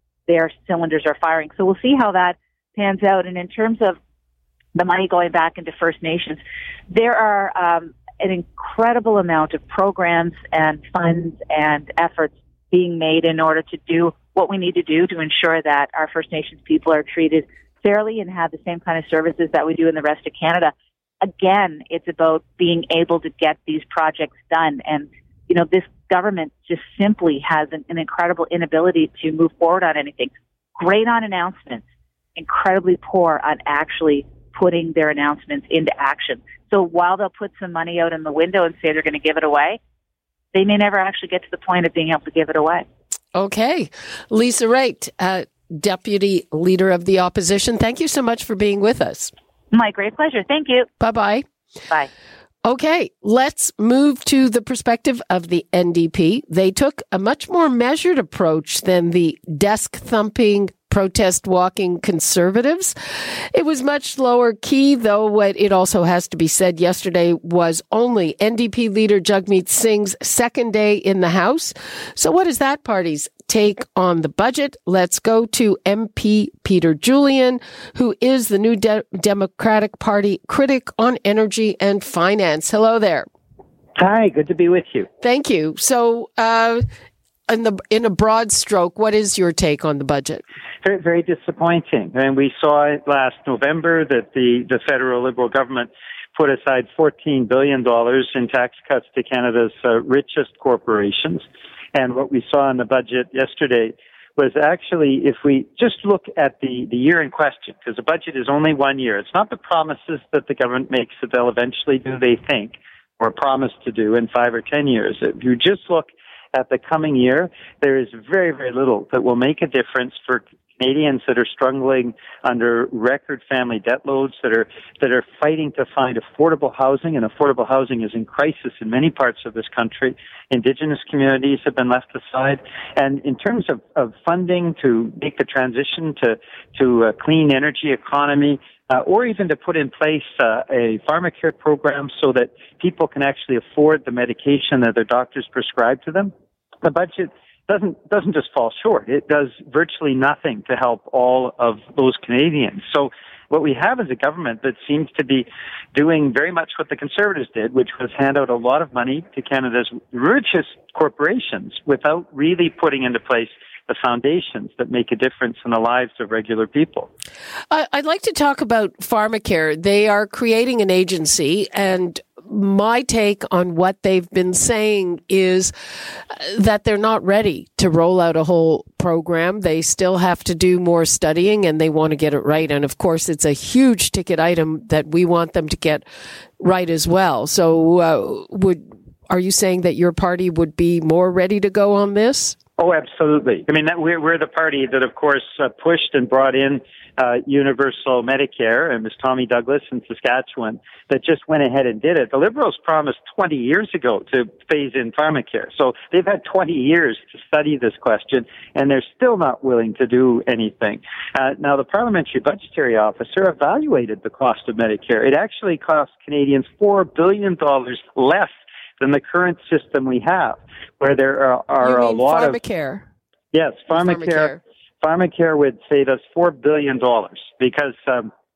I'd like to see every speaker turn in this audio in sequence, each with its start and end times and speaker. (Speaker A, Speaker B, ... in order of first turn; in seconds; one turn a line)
Speaker A: 0.3-4.0
Speaker A: 4.7-31.8
Speaker A: 32.4-39.8
Speaker A: 40.5-42.8
Speaker B: 43.3-49.3
Speaker A: 49.7-50.9
Speaker B: 51.0-51.4
Speaker B: 52.6-83.3
Speaker C: 84.0-85.1
Speaker B: 85.2-86.8
Speaker B: 87.5-90.4
Speaker C: 90.8-167.1
Speaker B: 167.7-186.1
Speaker B: 186.6-192.6
Speaker C: 192.8-222.6
Speaker B: 221.8-223.1
Speaker C: 223.5-228.3
Speaker B: 223.9-224.6